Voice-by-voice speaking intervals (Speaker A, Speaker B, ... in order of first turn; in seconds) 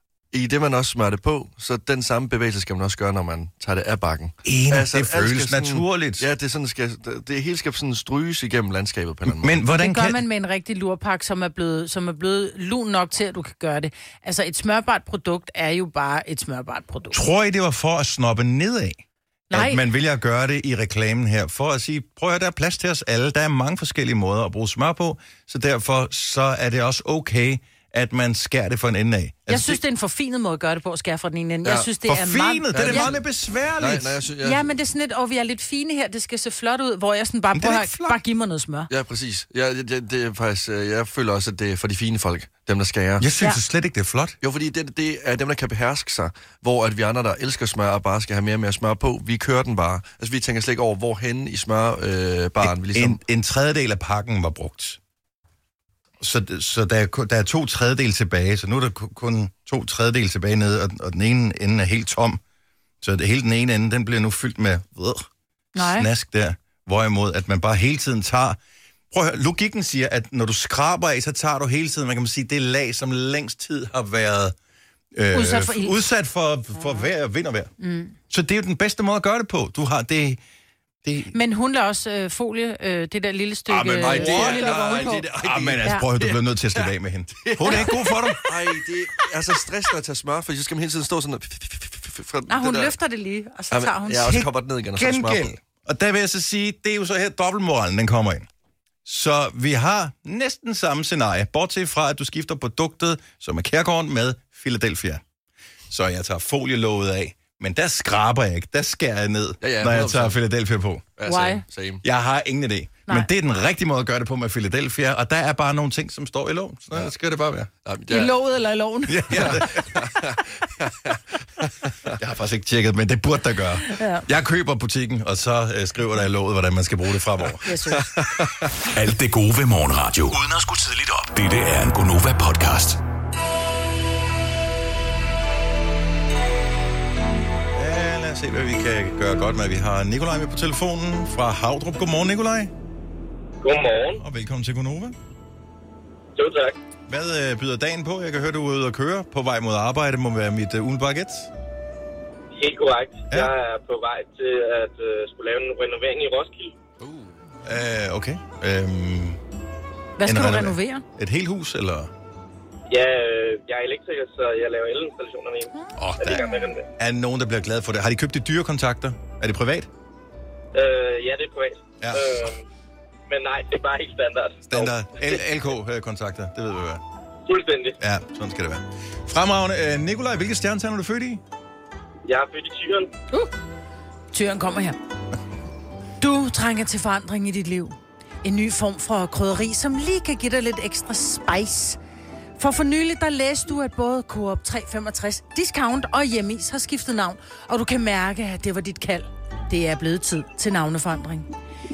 Speaker A: 0.3-9.6, 32.7-33.2, 33.8-34.7, 38.9-43.3, 44.4-53.2, 84.0-92.9, 93.7-95.5, 109.6-110.4, 111.2-112.0, 117.8-118.3, 119.3-122.1, 128.0-128.6, 157.0-157.4
Speaker B: 4.4-6.3, 9.3-10.2, 17.1-29.8, 32.0-34.2, 37.5-38.2, 43.2-44.4, 52.6-55.0, 56.2-62.4, 63.0-68.6, 69.1-74.5, 75.1-77.7, 78.3-80.4, 81.0-81.3, 83.7-88.5, 94.2-98.5, 99.0-105.2, 105.9-111.1, 112.0-117.7, 119.1-119.9, 122.2-127.7, 137.7-142.7, 144.2-145.2, 147.1-151.5, 157.6-159.4, 160.2-162.1, 165.9-169.9, 172.0-172.4, 174.7-177.0, 178.0-181.4
Speaker C: 9.8-17.2, 19.5-19.8, 29.5-33.1, 34.4-38.9, 65.7-66.1, 75.3-76.0, 77.8-78.1, 81.3-85.2, 87.7-88.1, 92.5-94.4, 111.3-111.6, 118.1-119.5, 123.8-124.2, 127.7-128.1, 160.2-161.0, 184.3-185.0, 186.2-192.0, 192.6-201.5
Speaker D: 128.9-133.0
Speaker E: 143.6-144.2, 146.3-146.8, 152.5-156.7, 162.9-166.8, 170.7-172.6, 173.3-174.9, 177.4-178.0, 182.2-183.1